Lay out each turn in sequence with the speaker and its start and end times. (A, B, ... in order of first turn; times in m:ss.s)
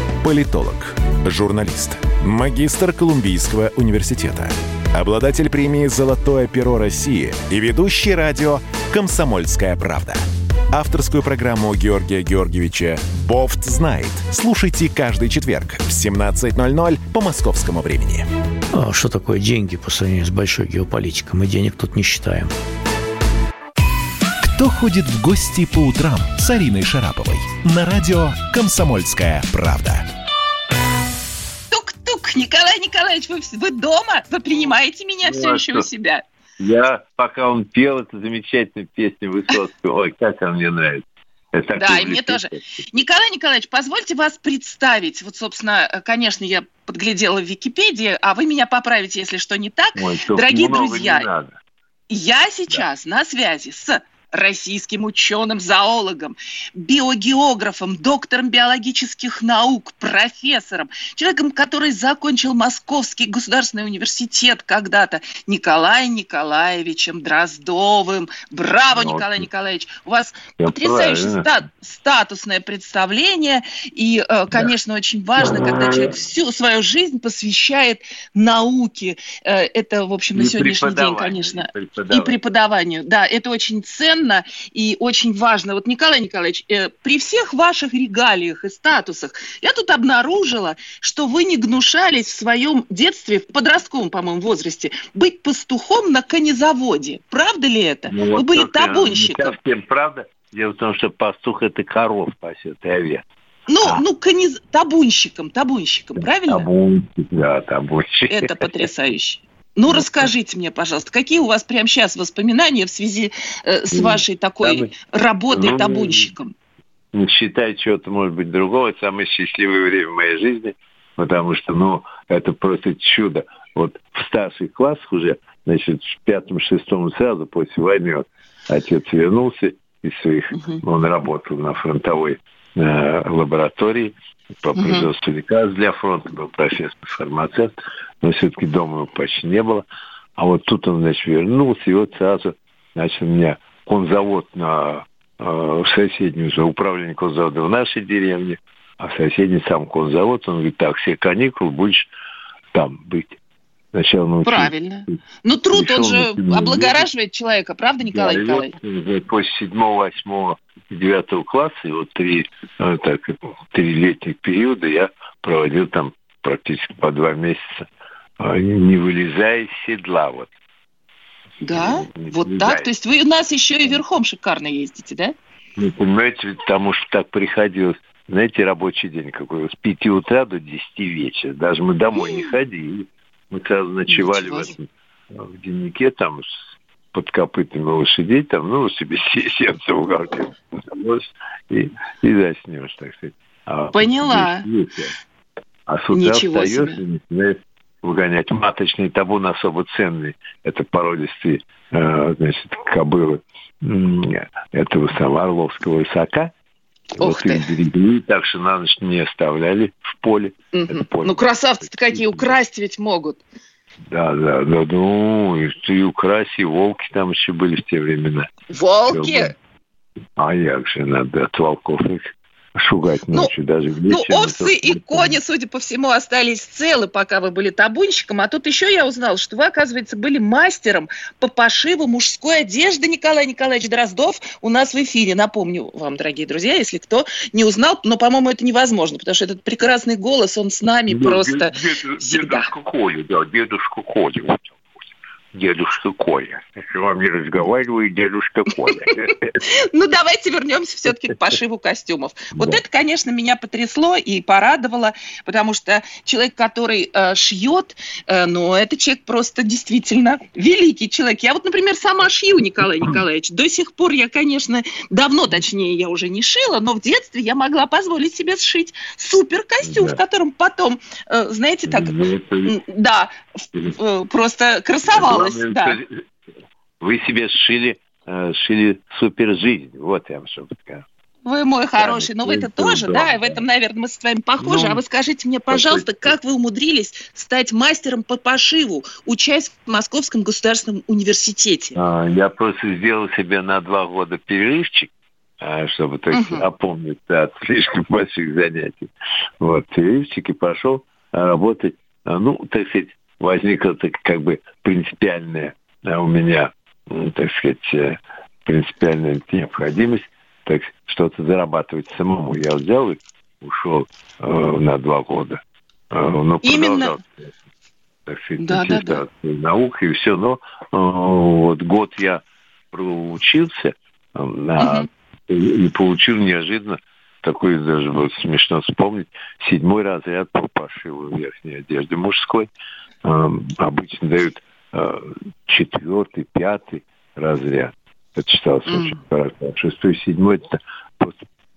0:00.2-0:18.3 A
0:18.7-0:22.5 B
0:24.4-0:30.1 A
0:31.7-0:36.2 C
0:35.2-0:35.9 D
0:36.6-0:42.8 D
0:41.8-0:51.3 C
0:50.0-0:51.6 D
0:52.1-1:39.6 C
1:08.9-1:09.5 D
1:10.6-1:11.5 D
1:15.4-1:16.2 D
1:20.4-1:22.4 D
1:38.1-1:43.2 D
1:43.7-1:46.7 C
1:46.2-1:48.8 D
1:48.3-1:56.5 C
1:49.9-1:50.3 D
1:53.9-1:54.9 D
1:55.5-1:56.3 D
1:57.1-2:19.8 D
2:10.5-2:10.8 C
2:14.8-2:15.1 C
2:20.4-2:32.1 D
2:32.7-2:33.4 D
2:33.9-2:35.2 D
2:34.4-2:38.7 C
2:35.7-2:37.1 D
2:38.0-2:47.9 D
2:48.4-2:50.5 D
2:51.6-2:55.4 C
2:51.7-2:52.9 D
2:55.8-3:06.6 D
3:02.2-3:02.5 C
3:04.1-3:04.7 C
3:07.1-3:15.2 D
3:13.9-3:14.6 C
3:15.9-3:26.5 D
3:16.1-3:17.0 C
3:27.2-3:32.5 D
3:27.2-3:27.7 C
3:30.7-3:33.4 C
3:34.1-3:38.6 D
3:38.7-3:39.5 C
3:39.1-3:39.5 D
3:40.4-3:45.4 D
3:44.1-4:02.7 C
4:01.1-4:05.0 D
4:05.5-4:09.6 D
4:09.0-4:36.0 C
4:12.5-4:12.8 D
4:29.8-4:30.2 D
4:31.9-4:32.8 D
4:35.1-4:36.2 D
4:37.0-4:41.0 D
4:41.4-4:52.0 C
4:42.0-4:43.6 D
4:44.6-4:45.0 D
4:45.7-4:46.3 D
4:52.0-5:17.5 D
4:56.3-4:56.7 C
5:16.6-5:17.2 C
5:18.3-5:32.7 D
5:18.6-5:19.2 C
5:24.8-5:25.1 C
5:33.2-5:41.4 D
5:38.9-5:39.2 C